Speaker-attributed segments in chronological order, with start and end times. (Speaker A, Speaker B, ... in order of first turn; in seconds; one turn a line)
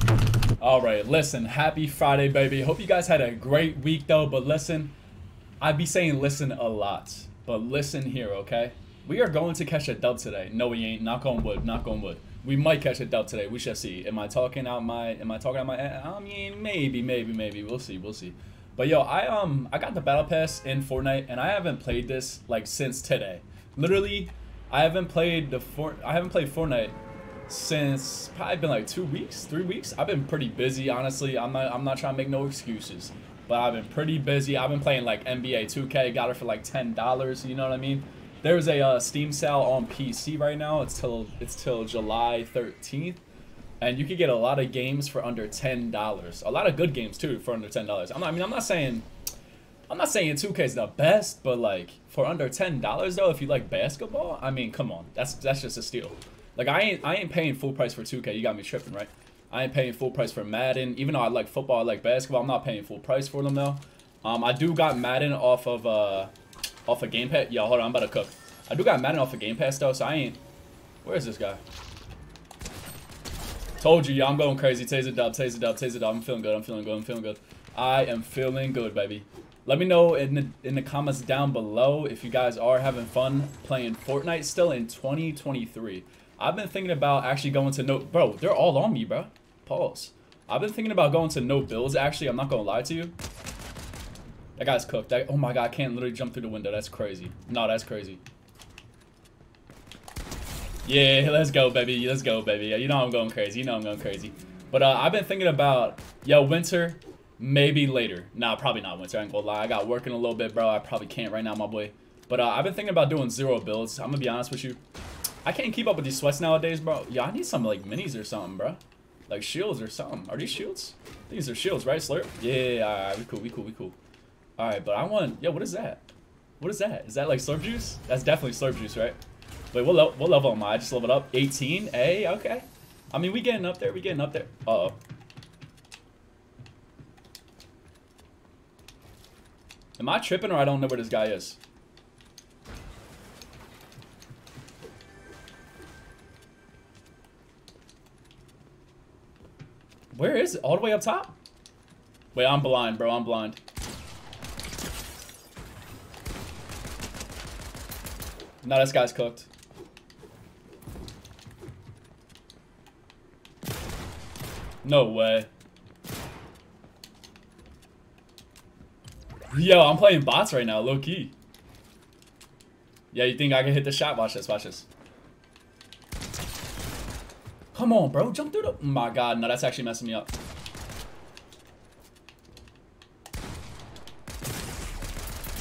Speaker A: 0.6-4.9
Speaker A: 5.6-43.2
Speaker A: 43.8-49.1
Speaker A: 49.9-66.3
Speaker A: 66.8-70.4
Speaker A: 71.0-71.6
Speaker A: 73.8-93.2
Speaker A: 94.6-98.2
Speaker A: 100.8-114.8
Speaker A: 115.4-124.0
Speaker A: 124.6-129.2
Speaker A: 129.7-135.0
Speaker A: 140.0-141.6
Speaker A: 150.1-151.4
Speaker A: 152.3-153.6
Speaker A: 158.6-159.5
Speaker A: 164.8-165.5
Speaker A: 169.5-171.3
Speaker A: 173.1-174.9
Speaker A: 177.7-180.3